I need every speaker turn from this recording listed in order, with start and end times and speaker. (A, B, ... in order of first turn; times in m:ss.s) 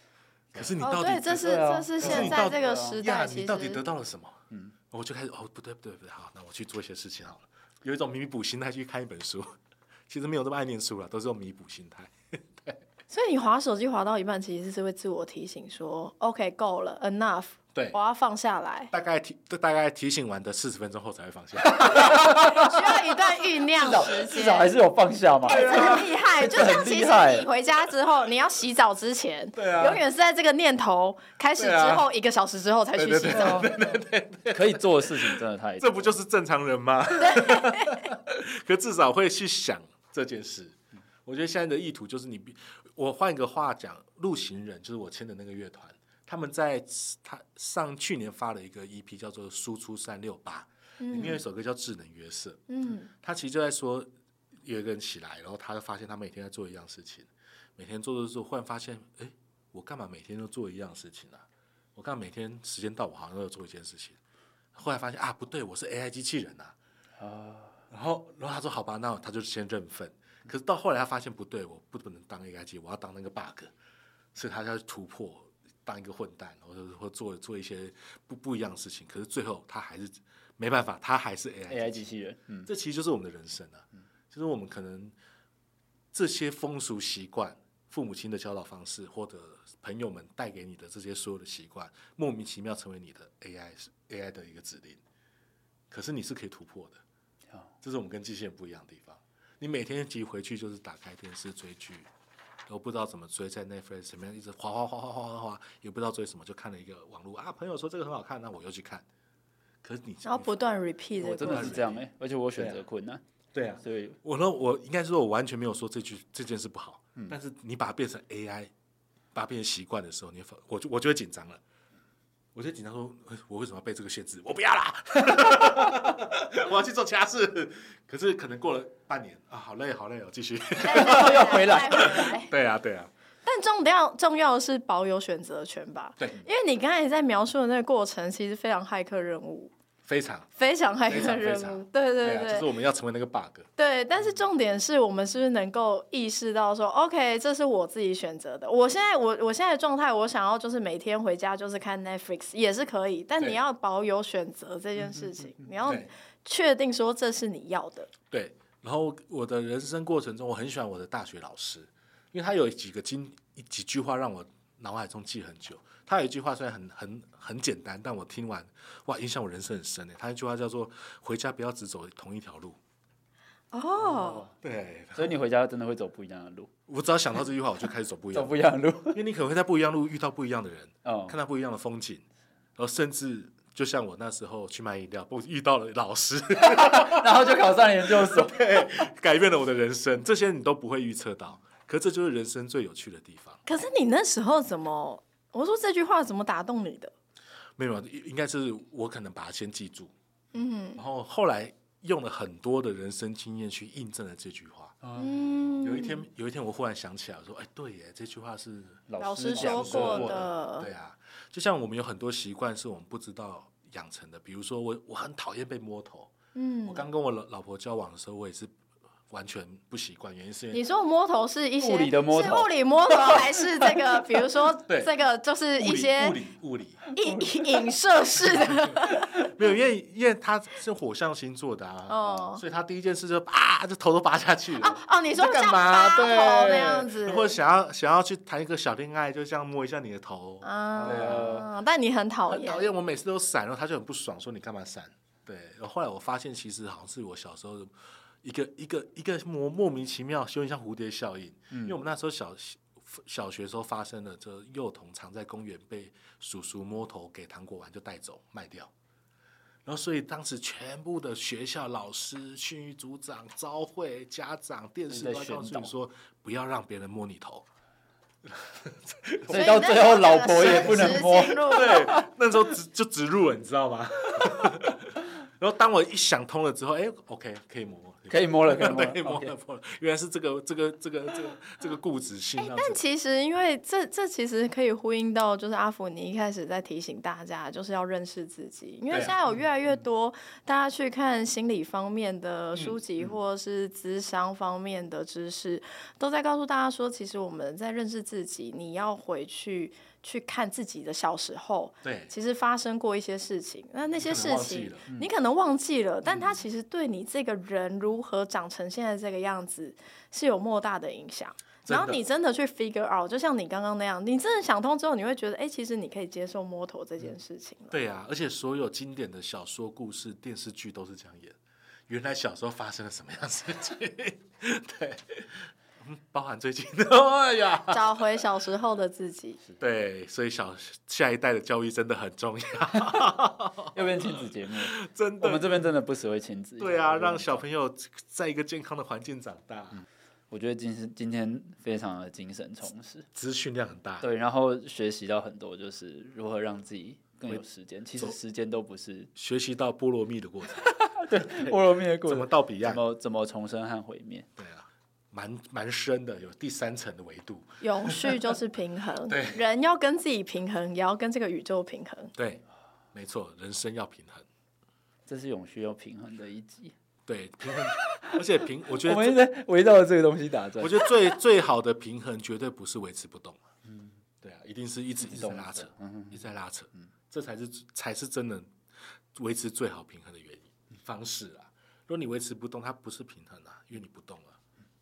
0:00.5-0:09.5 A
0:00.8-0:03.8 B
0:01.4-0:03.0 C
0:10.1-0:12.8 A
0:13.1-0:18.9 B
0:18.9-0:23.0 A
0:21.7-0:23.0 C
0:22.0-0:24.7 B
0:23.7-0:27.5 C
0:25.4-0:26.2 A
0:25.4-0:33.7 B
0:29.6-0:30.0 A
0:31.6-0:32.1 A
0:32.9-0:52.6 A
0:33.3-0:33.7 C
0:34.5-0:36.1 C
0:37.2-0:38.0 B
0:51.0-0:51.4 B
0:52.7-0:53.1 B
0:53.1-0:54.1 A
0:54.6-1:01.4 A
1:02.0-1:04.2 A
1:04.7-1:06.7 A
1:07.2-1:07.8 C
1:07.9-1:13.7 A
1:14.3-1:22.1 A
1:21.7-1:22.7 C
1:22.6-1:25.2 A
1:26.1-1:35.0 A
1:35.9-1:37.0 A
1:37.8-1:42.1 A
1:42.7-1:49.0 A
1:49.8-1:50.5 A
1:50.2-1:51.8 B
1:51.2-1:53.2 C
1:51.3-1:52.0 A
1:52.6-1:52.8 A
1:53.5-1:58.7 A
1:53.8-1:54.2 C
1:59.3-2:01.6 A
2:02.5-2:13.1 A
2:10.8-2:12.5 B
2:10.9-2:12.3 C
2:13.4-2:19.7 B
2:20.0-2:20.5 A
2:20.6-2:22.7 B
2:21.0-2:23.7 A
2:23.8-2:38.1 B
2:35.8-2:36.1 A
2:38.3-2:52.8 A
2:53.7-2:54.5 B
2:54.0-2:54.5 C
2:54.6-2:55.3 A
2:55.1-2:56.7 C
2:56.9-3:02.2 A
2:58.3-2:59.2 C
3:01.0-3:01.4 C
3:02.8-3:07.5 A
3:06.6-3:09.1 C
3:08.0-3:13.6 A
3:13.6-3:17.1 B
3:17.8-3:20.1 A
3:20.5-3:21.0 B
3:21.0-3:25.0 A
3:25.0-3:25.5 C
3:25.2-3:26.2 B
3:25.8-3:36.3 A
3:29.1-3:30.5 C
3:29.2-3:30.9 B
3:36.5-3:37.1 B
3:36.8-3:38.7 A
3:39.3-3:40.8 A
3:40.7-3:46.4 B
3:41.8-3:44.4 C
3:44.9-3:45.1 A
3:45.8-3:47.0 A
3:47.1-3:47.8 C
3:47.1-3:49.3 B
3:48.6-4:01.6 A
3:52.1-3:52.6 B
3:54.8-3:57.6 B
4:00.6-4:02.8 B
4:01.0-4:01.7 C
4:02.5-4:07.9 A
4:08.4-4:18.9 A
4:11.7-4:12.0 C
4:19.8-4:27.6 A
4:25.1-4:25.9 C
4:28.5-4:29.9 A
4:29.5-4:32.2 C
4:29.5-4:32.2 B
4:30.5-4:43.0 A
4:38.3-4:39.5 C
4:42.6-5:18.0 B
4:49.1-4:49.4 A
4:52.7-4:53.0 A
5:02.0-5:02.3 A
5:04.2-5:05.1 A
5:06.2-5:06.6 A
5:11.8-5:12.2 A
5:17.9-5:21.6 A
5:22.1-5:28.4 A
5:27.9-5:29.6 B
5:29.8-5:35.8 A
5:33.9-5:37.6 C
5:36.8-5:40.0 A
5:39.9-5:43.3 C
5:43.3-5:44.3 A
5:44.2-5:49.3 C
5:49.3-5:53.0 A
5:50.8-5:54.5 C
5:54.6-5:58.5 A
5:57.8-6:02.3 B
5:59.2-5:59.6 A
6:02.4-6:04.4 A
6:05.3-6:06.9 C
6:07.2-6:09.4 A
6:07.9-6:08.4 C
6:08.9-6:11.2 C
6:10.8-6:13.6 A
6:13.9-6:14.1 C
6:14.4-6:18.7 A
6:15.2-6:16.4 C
6:19.3-6:24.6 A